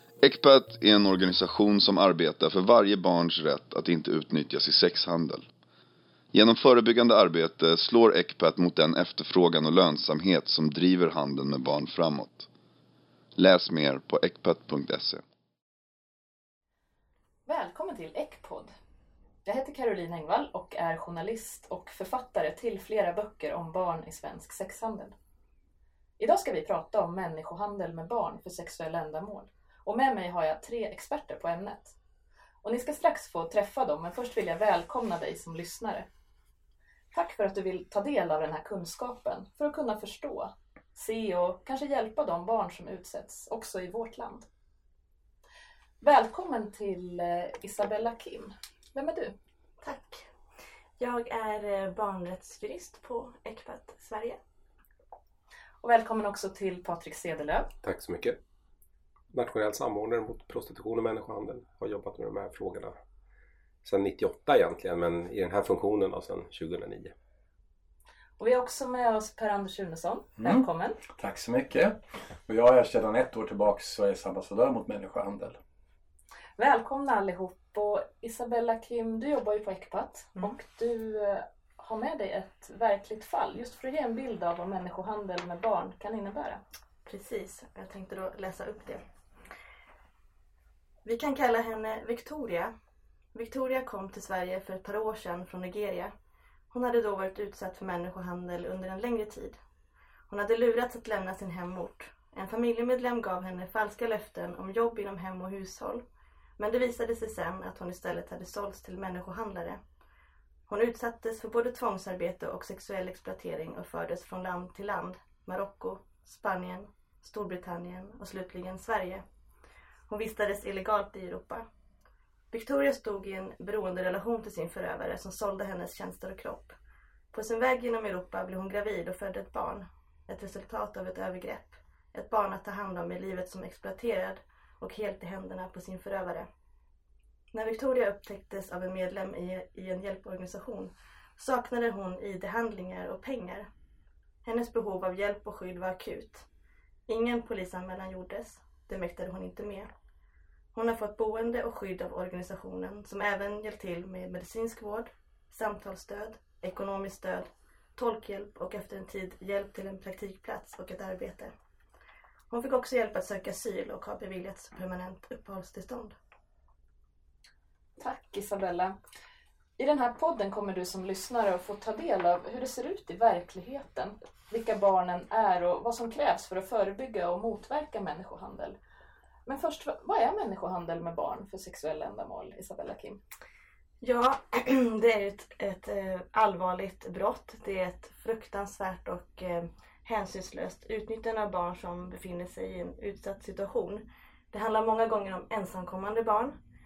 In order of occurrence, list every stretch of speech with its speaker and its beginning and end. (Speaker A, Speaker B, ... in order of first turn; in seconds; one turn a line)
Speaker A: 0.2-5.5
Speaker A: 6.3-12.5
Speaker A: 13.4-15.2
Speaker B: 17.5-18.7
Speaker B: 19.4-25.1
Speaker B: 26.2-31.9
Speaker B: 32.6-36.1
Speaker B: 37.1-44.5
Speaker B: 46.0-49.3
Speaker C: 49.8-50.2
Speaker C: 51.0-54.4
Speaker B: 55.8-57.7
Speaker D: 57.8-58.4
Speaker D: 59.3-63.0
Speaker D: 63.9-67.1
Speaker B: 68.4-71.0
Speaker E: 71.2-75.6
Speaker B: 76.6-86.6
Speaker C: 87.1-89.0
Speaker C: 91.0-92.7
Speaker C: 93.3-96.1
Speaker C: 96.7-99.6
Speaker C: 100.3-106.0
Speaker C: 106.6-109.8
Speaker C: 110.7-119.2
Speaker C: 120.1-121.7
Speaker C: 122.5-126.8
Speaker C: 127.3-136.5
Speaker C: 137.5-143.7
Speaker C: 144.4-146.5
Speaker C: 147.1-149.9
Speaker C: 150.7-161.5
Speaker C: 162.5-166.2
Speaker B: 168.0-169.0
Speaker B: 169.8-178.8
Speaker B: 179.5-183.2
Speaker C: 184.0-196.6